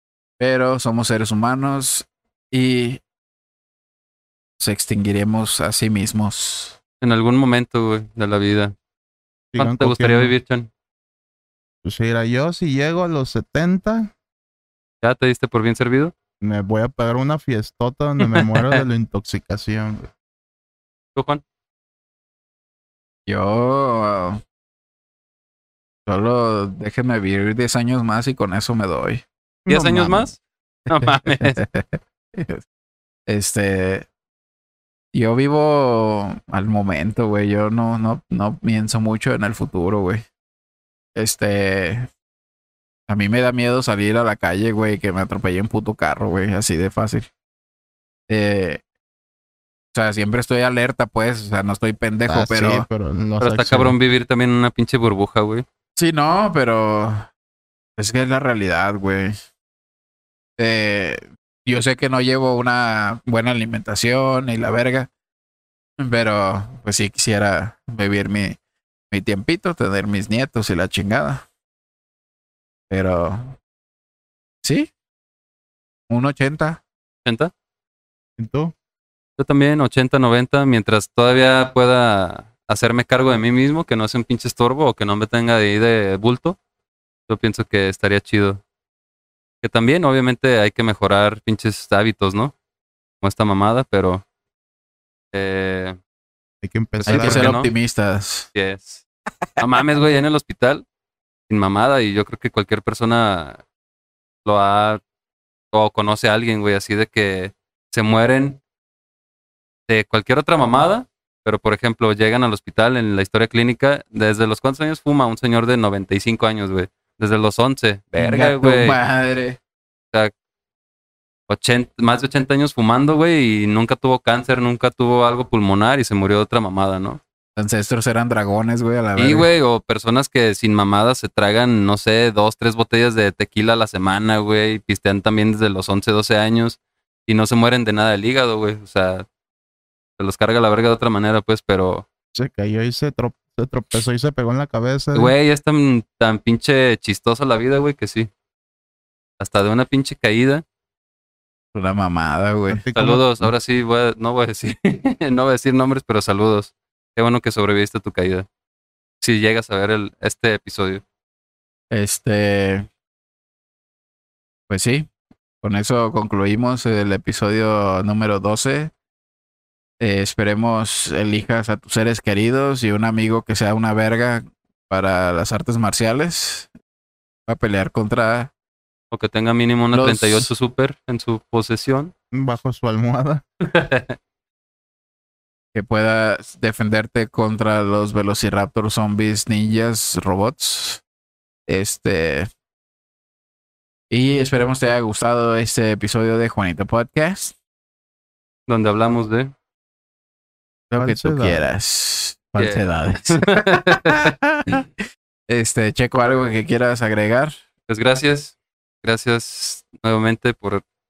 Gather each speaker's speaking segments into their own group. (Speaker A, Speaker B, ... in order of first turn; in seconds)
Speaker A: 0.4-3.0, 4.6-6.8, 23.3-24.4, 26.1-29.2, 31.4-32.6, 33.3-34.1, 35.1-40.2, 41.1-42.1, 43.1-47.3, 48.3-48.8, 49.9-52.9, 56.0-57.3, 58.0-59.4, 60.6-65.1, 66.0-68.6, 69.1-71.4, 72.9-73.6, 74.6-74.9, 76.1-76.8, 97.1-98.5, 118.1-119.6, 127.5-129.5, 151.7-152.8, 161.9-162.9, 164.7-165.1, 165.6-168.9, 170.0-176.7, 177.5-178.5, 179.9-180.5, 185.7-191.0, 191.7-192.5, 194.1-197.5, 200.9-204.8, 205.5-207.6
Speaker B: 7.0-8.7, 9.6-10.7, 15.0-16.1, 18.2-18.8, 21.1-21.4, 29.7-31.6, 53.4-55.6, 77.2-77.5, 79.4-86.6, 87.3-88.6, 89.6-92.5, 93.2-94.2, 95.3-96.0, 97.0-97.7, 98.5-99.0, 99.6-100.8, 101.5-103.6, 104.4-105.0, 105.7-108.6, 109.9-119.0, 121.5-127.2, 129.2-139.3, 140.2-142.1, 145.1-148.3, 149.4-150.6, 152.9-158.4, 159.2-161.0, 179.1-182.1, 183.6-184.2, 198.7-199.5, 202.6-204.8, 207.9-210.8
Speaker C: 9.5-10.3, 11.8-14.1, 16.4-20.1, 29.7-30.3, 52.3-54.0, 78.4-78.7, 96.6-97.5, 142.3-145.3, 152.7-153.2, 182.3-183.4, 200.9-201.6